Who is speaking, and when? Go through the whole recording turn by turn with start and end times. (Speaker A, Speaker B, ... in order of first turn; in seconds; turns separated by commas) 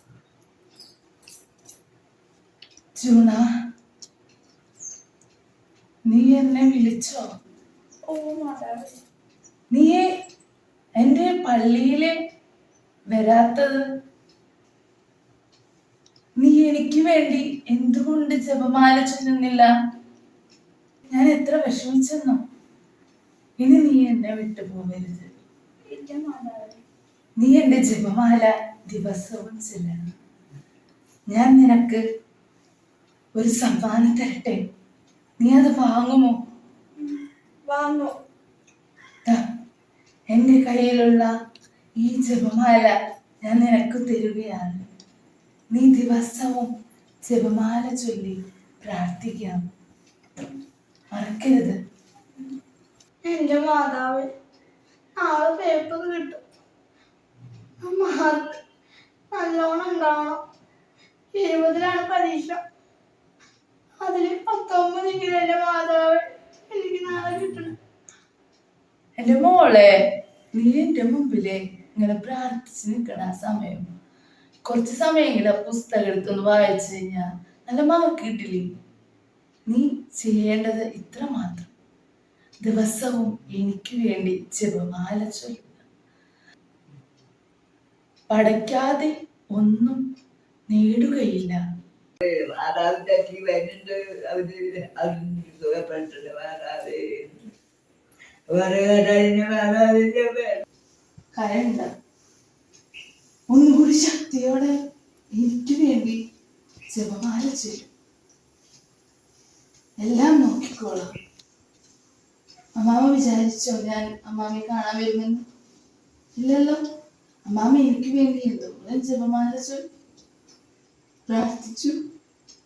Speaker A: 3.0-3.4, Speaker A: 6.1-7.2, Speaker B: 8.1-9.0, Speaker A: 9.7-10.1, Speaker A: 11.0-12.1, Speaker A: 13.1-13.8, Speaker A: 16.4-19.7, Speaker A: 21.1-22.4, Speaker A: 23.6-25.4, Speaker B: 25.9-26.8, Speaker A: 27.4-30.1, Speaker A: 31.3-32.0, Speaker A: 33.3-34.6, Speaker A: 35.4-36.4, Speaker B: 37.0-38.1, Speaker A: 40.3-41.3, Speaker A: 42.0-44.8, Speaker A: 45.7-46.7, Speaker A: 47.2-49.6, Speaker A: 51.1-51.8, Speaker B: 53.2-54.3, Speaker B: 55.2-56.4, Speaker B: 57.8-58.6, Speaker B: 59.3-60.4, Speaker B: 61.3-62.6, Speaker B: 64.0-67.7, Speaker A: 69.2-69.9, Speaker A: 70.5-73.8, Speaker A: 74.7-78.7, Speaker A: 79.7-81.7, Speaker A: 82.6-85.8, Speaker A: 88.3-90.0, Speaker A: 90.7-91.6, Speaker C: 92.2-97.4, Speaker C: 98.5-100.6, Speaker A: 101.3-101.9, Speaker A: 103.5-104.8, Speaker A: 105.3-106.2, Speaker A: 106.9-107.9, Speaker A: 110.0-111.1, Speaker A: 112.8-115.4, Speaker A: 116.3-116.8, Speaker A: 117.5-119.8, Speaker A: 121.3-122.0